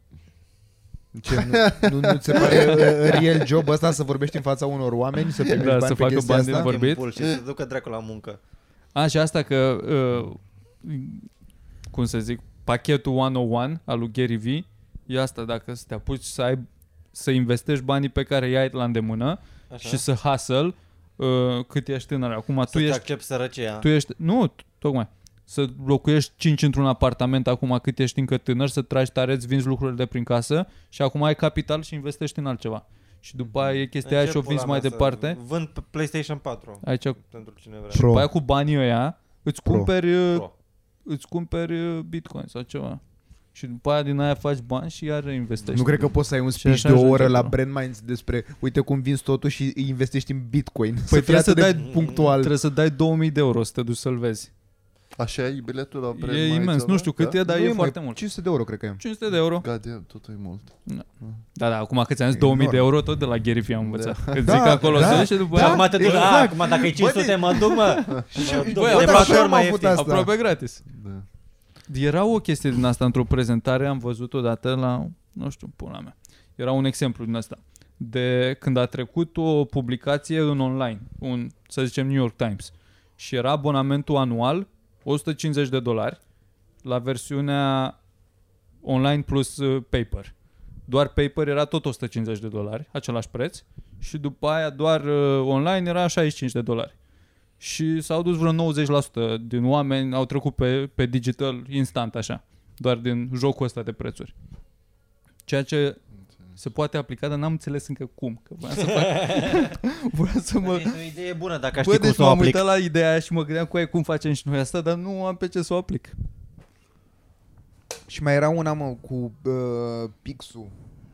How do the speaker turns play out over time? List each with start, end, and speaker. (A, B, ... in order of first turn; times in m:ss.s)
0:01.1-0:06.7 A
0:01.3-0:03.4 B
0:05.5-0:07.0 C
0:06.6-0:08.4 D
0:08.9-0:11.3 C
0:11.9-0:23.1 C
0:19.7-0:20.0 D
0:22.7-0:23.9 D
0:23.8-0:35.4 C
0:33.5-0:33.8 B
0:34.0-0:38.0 D
0:36.8-0:37.2 C
0:37.9-0:38.3 A
0:37.9-0:40.5 C
0:39.6-0:39.9 A
0:41.0-0:43.0 C
0:43.5-0:47.5 C
0:45.7-0:52.6 A
0:51.1-0:54.5 C
0:55.2-0:57.4 B
0:56.1-0:58.2 C
0:57.4-0:59.0 A
0:59.0-0:59.6 C
0:59.6-1:01.4 B
1:00.8-1:06.2 C
1:02.3-1:02.8 A
1:03.8-1:05.3 B
1:04.4-1:10.3 A
1:05.3-1:10.0 D
1:08.1-1:08.3 B
1:08.4-1:10.8 C
1:10.9-1:11.2 B
1:11.9-1:26.2 C
1:26.8-1:28.0 C
1:28.8-1:30.3 C
1:30.9-1:36.9 C
1:37.6-1:44.3 C
1:45.4-1:46.0 C
1:46.6-1:51.0 C
1:48.7-1:49.7 D
1:50.6-1:52.6 D
1:51.8-1:56.1 C
1:58.1-2:00.7 A